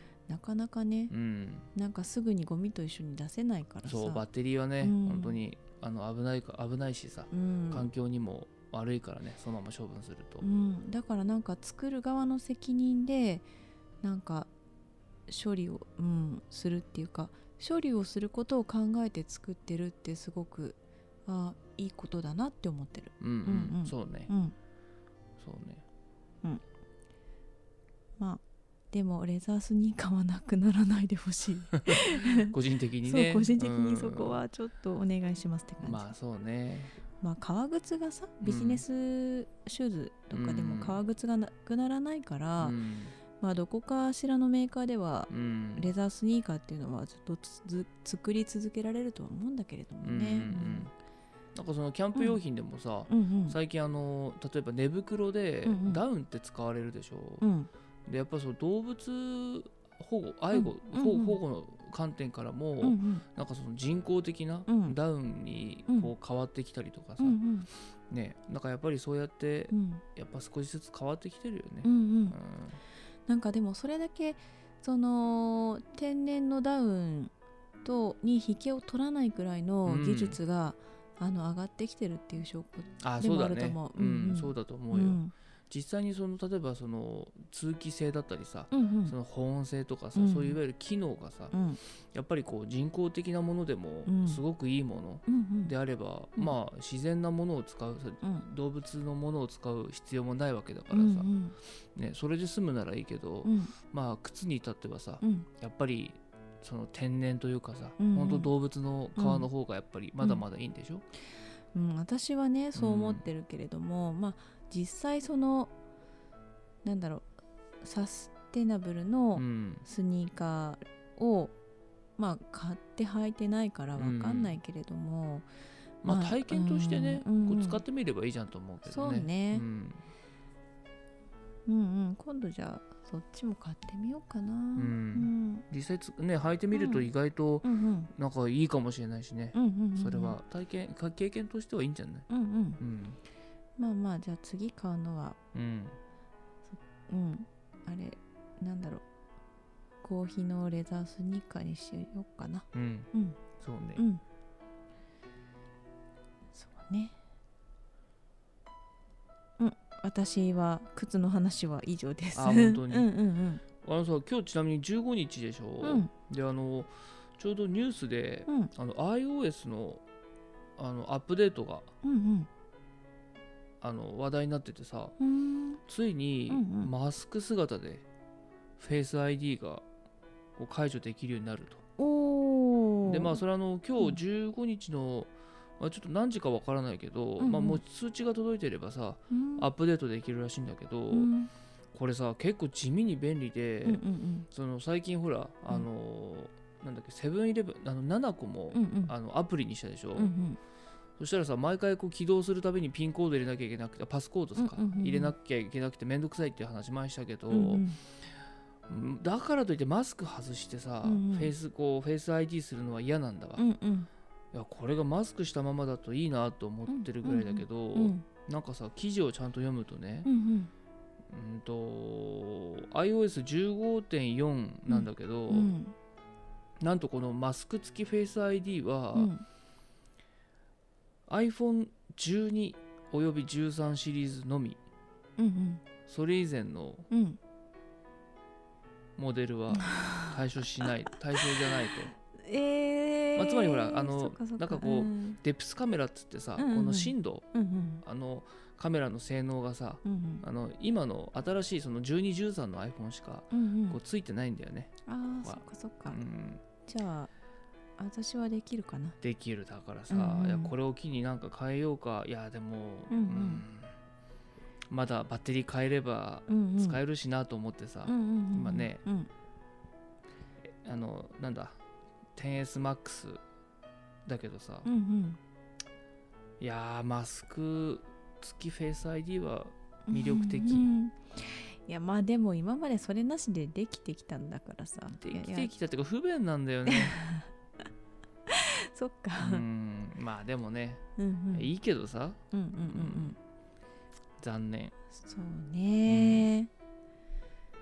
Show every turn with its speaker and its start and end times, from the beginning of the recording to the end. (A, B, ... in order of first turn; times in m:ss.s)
0:00.3-0:01.1 A
0:01.1-0:01.7 B
0:01.7-0:04.2 A
0:03.8-0:10.4 B
0:04.8-0:05.4 A
0:07.3-0:07.9 A
0:10.4-0:13.5 A
0:14.0-0:14.5 A
0:15.3-0:24.5 A
0:23.2-0:24.3 B
0:25.4-0:25.8 B
0:28.2-0:36.1 A
0:32.0-0:34.4 B
0:35.8-0:37.0 B
0:37.2-0:42.8 A
0:38.4-0:38.8 B
0:40.3-0:41.0 B
0:42.6-0:43.2 B
0:43.4-0:50.9 A
0:45.3-0:45.9 B
0:50.0-0:50.9 B
0:51.5-0:57.4 B
0:53.1-0:53.6 A
0:55.6-0:56.0 A
0:57.4-0:57.7 A
0:58.0-1:07.4 B
1:00.5-1:01.4 A
1:02.8-1:03.2 A
1:04.7-1:05.0 A
1:07.2-1:07.7 A
1:08.1-1:12.8 B
1:09.7-1:10.0 A
1:11.8-1:12.4 A
1:13.3-1:17.3 A
1:17.8-1:25.3 A
1:19.8-1:20.4 B
1:23.0-1:31.6 B
1:28.7-1:29.1 A
1:30.1-1:30.6 A
1:31.5-1:31.8 A
1:32.1-1:41.3 B
1:34.0-1:34.4 A
1:35.2-1:35.7 A
1:40.9-1:41.5 A
1:41.9-1:51.0 B
1:43.4-1:43.7 A
1:45.2-1:45.5 A
1:48.0-1:48.5 A
1:49.2-1:49.5 A
1:51.7-1:55.7 A
1:52.7-1:53.2 B
1:56.8-1:57.3 A
1:57.8-2:01.5 A
1:59.4-1:59.8 B
2:02.2-2:05.5 A
2:04.0-2:04.6 B
2:06.0-2:10.0 B
2:06.0-2:07.8 A
2:08.8-2:09.6 A
2:11.6-2:15.6 A
2:14.8-2:22.3 B
2:16.7-2:17.1 A
2:17.6-2:18.1 A
2:19.5-2:20.4 A
2:22.3-2:22.8 A
2:22.8-2:23.2 B
2:23.8-2:25.4 A
2:25.5-2:26.0 B
2:27.1-2:29.0 A
2:30.0-2:33.4 A
2:32.7-2:34.0 B
2:34.0-2:34.2 A
2:36.5-2:37.1 A
2:39.6-2:43.6 A
2:42.3-2:43.1 B
2:43.8-2:50.0 B
2:45.8-2:46.1 A
2:50.8-2:51.9 B
2:52.0-2:52.5 A
2:53.8-2:55.1 B
2:55.2-2:55.8 A
2:55.9-2:58.0 B
2:56.5-2:56.9 A
2:58.8-2:59.8 B
3:00.6-3:01.8 B
3:02.0-3:03.4 A
3:03.1-3:11.3 B
3:07.4-3:07.8 A
3:09.3-3:09.7 A
3:11.1-3:11.5 A
3:11.9-3:20.3 B
3:13.8-3:14.5 A
3:18.7-3:19.1 A
3:20.2-3:20.6 A
3:21.2-3:27.9 B
3:24.6-3:25.3 A
3:27.5-3:28.0 A
3:28.9-3:33.6 B
3:31.0-3:31.5 A
3:33.6-3:34.1 A
3:34.5-3:40.3 B
3:36.9-3:38.2 A
3:40.2-3:40.7 A
3:41.3-3:45.7 B
3:44.9-3:45.9 A
3:46.8-3:49.3 B
3:49.1-3:49.4 A
3:51.3-3:54.8 B
3:55.4-3:55.8 A
3:56.1-3:57.0 B
3:57.1-3:57.4 A
3:59.2-4:02.1 B
3:59.7-4:00.9 A
4:02.3-4:05.4 A
4:03.3-4:07.4 B
4:06.6-4:08.0 A
4:08.0-4:16.6 B
4:10.0-4:10.4 A
4:13.5-4:14.0 A
4:15.0-4:16.2 A
4:16.9-4:17.3 A
4:18.0-4:19.2 A
4:19.2-4:23.9 B
4:20.1-4:20.7 A
4:23.1-4:23.6 A
4:24.9-4:29.0 B
4:26.5-4:27.0 A
4:28.0-4:29.3 A
4:30.6-4:31.8 B
4:32.3-4:33.4 B
4:34.2-4:34.9 B
4:34.8-4:35.4 A
4:36.6-4:40.9 B
4:40.1-4:45.7 A
4:45.1-4:47.2 B
4:46.9-4:47.5 A
4:48.5-4:49.6 A
4:49.4-4:53.4 B
4:51.2-4:51.7 A
4:52.5-4:53.4 A
4:54.4-4:54.9 B
4:55.2-4:56.7 A
4:56.0-4:56.5 B